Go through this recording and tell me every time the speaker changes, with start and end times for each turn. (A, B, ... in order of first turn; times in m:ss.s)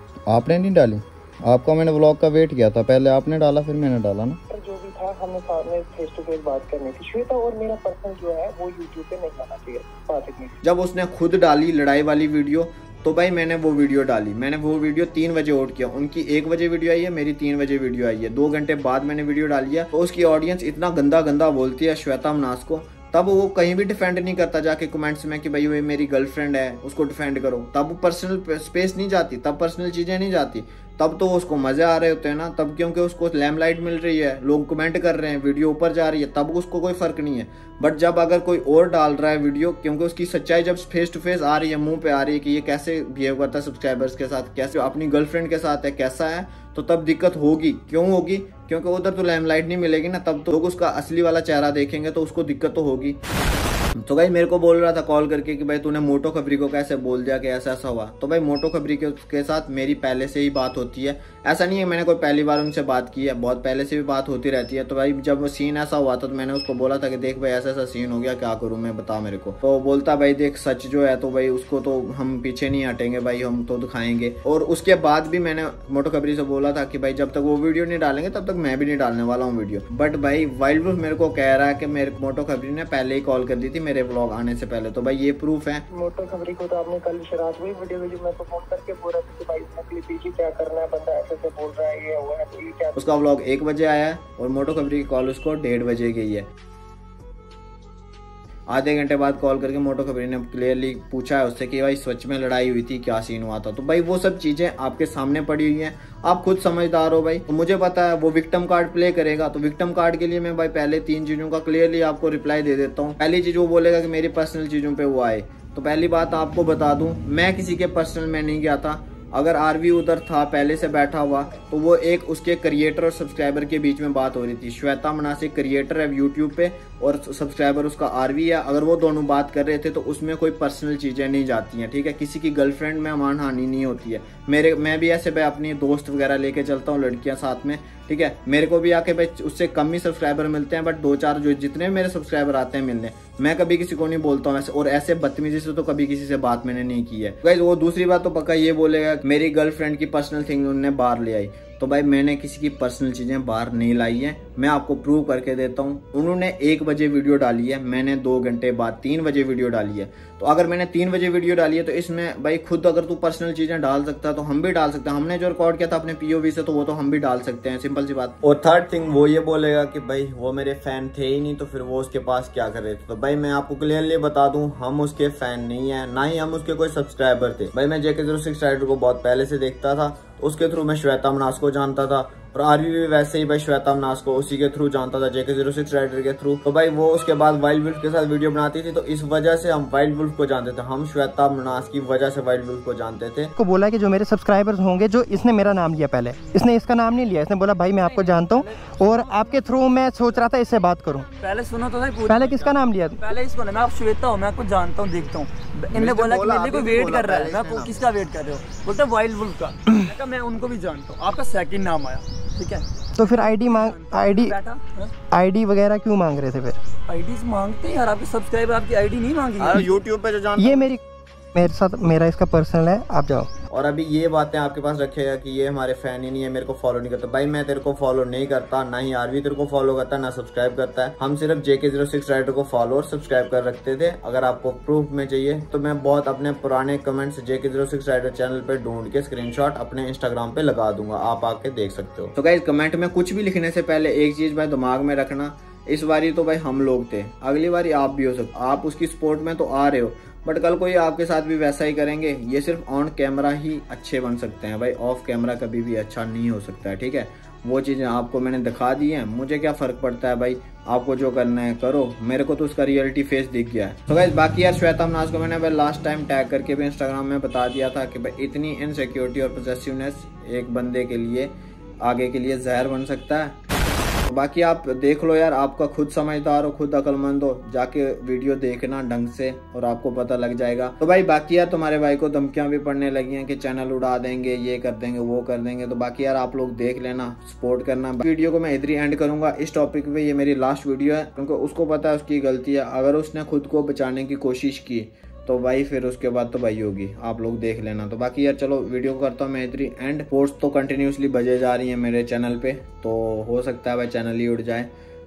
0:00.3-0:04.4 A
0:04.5-0:10.6 B
0:10.6-0:53.2 A
0:54.0-1:25.8 A
1:25.9-1:33.0 B
1:33.0-1:36.5 A
1:38.7-3:13.6 A
3:13.6-3:21.3 C
3:18.0-3:19.6 D
3:21.4-3:35.1 D
3:22.3-3:23.2 C
3:25.9-3:28.1 A
3:33.2-3:34.6 C
3:35.3-3:36.8 C
3:37.1-3:39.9 D
3:39.6-3:40.9 A
3:40.6-3:41.0 C
3:41.6-3:43.5 C
3:43.7-4:33.6 A
4:34.3-5:04.9 A